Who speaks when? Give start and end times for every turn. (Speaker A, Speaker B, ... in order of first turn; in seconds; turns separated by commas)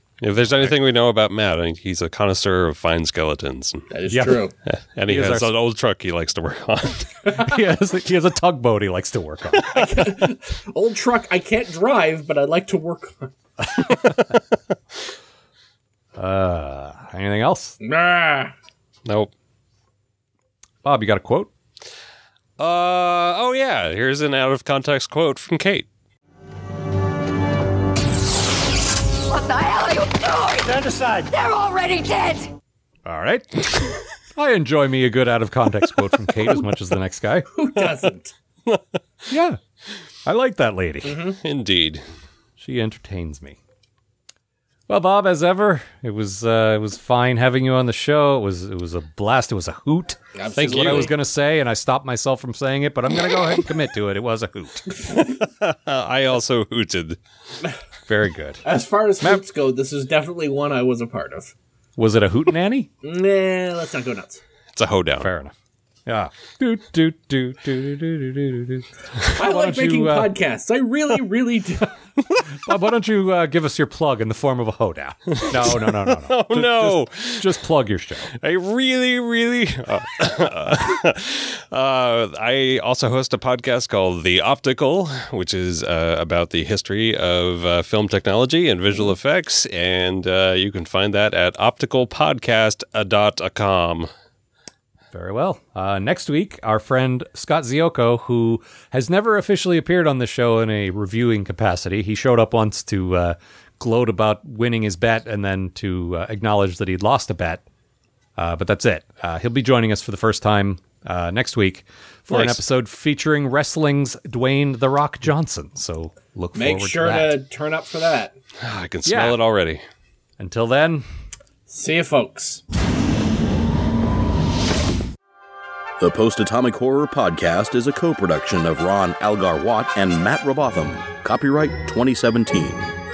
Speaker A: 0.2-3.9, Speaker B: 3.9-4.5, Speaker C: 4.1-4.5, Speaker A: 4.7-7.2, Speaker C: 5.1-5.5, Speaker C: 7.3-10.2, Speaker B: 9.7-13.3, Speaker C: 16.1-17.8, Speaker B: 17.8-18.5, Speaker A: 19.1-19.3, Speaker C: 20.8-21.5, Speaker A: 22.6-25.9, Speaker D: 29.3-32.5, Speaker C: 30.6-31.3, Speaker C: 33.0-37.5, Speaker B: 37.5-38.3, Speaker C: 39.3-39.6, Speaker C: 40.2-41.2, Speaker B: 41.0-41.4, Speaker A: 41.4-42.0, Speaker C: 42.6-43.6, Speaker C: 44.9-55.0, Speaker B: 50.4-51.1, Speaker A: 50.6-51.1, Speaker A: 55.1-57.2, Speaker C: 58.1-58.6, Speaker B: 58.6-61.5, Speaker C: 62.0-62.9, Speaker B: 63.0-64.4, Speaker A: 64.7-65.3, Speaker C: 65.2-65.5, Speaker C: 66.0-70.3, Speaker B: 69.3-71.9, Speaker C: 72.5-78.3, Speaker A: 75.3-77.5, Speaker A: 78.4-94.1, Speaker C: 95.1-107.6, Speaker C: 108.4-117.4, Speaker A: 112.3-112.6, Speaker B: 116.5-118.3, Speaker A: 118.6-119.8, Speaker C: 119.0-119.4, Speaker C: 120.4-121.0, Speaker B: 121.7-122.6, Speaker E: 126.0-132.9